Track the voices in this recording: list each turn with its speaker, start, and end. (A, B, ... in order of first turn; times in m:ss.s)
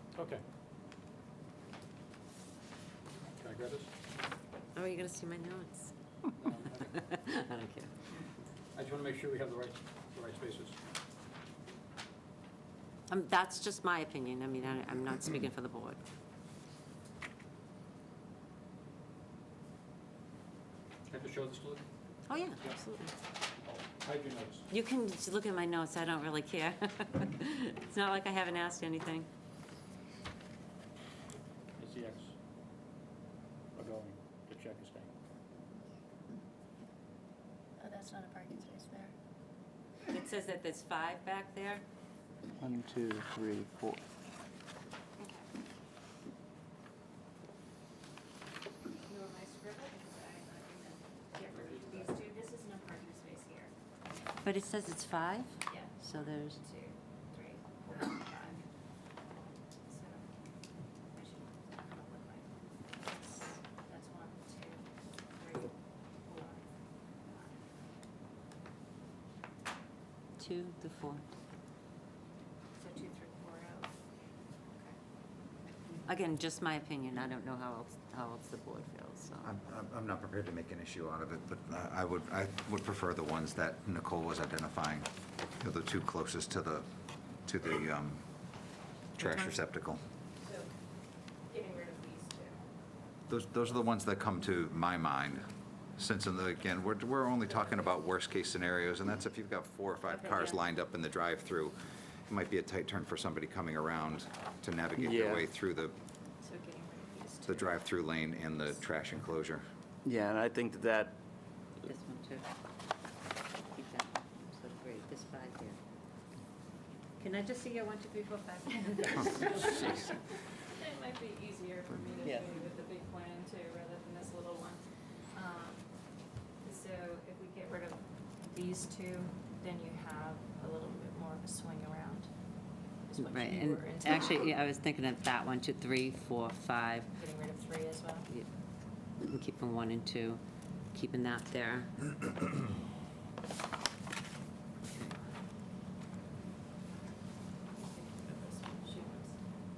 0:00.2-0:00.4 A
0:03.4-0:03.9 A
0:04.8-0:05.9 B
0:06.4-0:07.0 A
0:06.9-0:07.9 B
0:08.8-0:10.8 A
0:13.1-0:16.0 B
0:21.1-0:21.9 A
0:22.3-0:23.1 B
0:23.6-0:24.7 A
0:24.7-0:29.3 B
0:31.8-0:32.3 A
0:33.8-0:35.1 A
0:37.8-0:39.1 C
0:40.1-0:41.8 B
0:42.6-0:44.0 D
0:45.2-0:45.4 C
0:49.0-0:53.7 C
0:54.4-0:56.6 B
0:55.7-0:58.7 C
0:59.3-1:00.3 C
1:01.1-1:07.6 C
1:10.4-1:11.2 B
1:12.8-1:13.9 C
1:16.1-1:19.5 B
1:19.4-1:26.9 E
1:27.4-1:28.2 E
1:29.2-1:30.0 E
1:29.2-1:29.5 C
1:30.4-1:30.7 C
1:31.5-1:32.7 C
1:33.3-1:35.4 E
1:36.0-1:41.8 E
1:40.1-1:40.6 C
1:42.3-1:46.0 E
1:45.0-1:45.4 D
1:46.4-1:47.8 C
1:47.5-1:49.6 E
1:50.0-1:51.2 D
1:51.8-1:52.5 B
1:53.7-1:55.8 B
1:57.2-2:00.2 B
1:59.2-2:04.8 C
2:05.3-2:05.9 C
2:06.6-2:12.3 C
2:13.1-2:14.5 C
2:13.2-2:17.1 B
2:17.2-2:18.3 C
2:19.2-2:20.4 B
2:20.9-2:22.3 B
2:27.7-2:29.4 C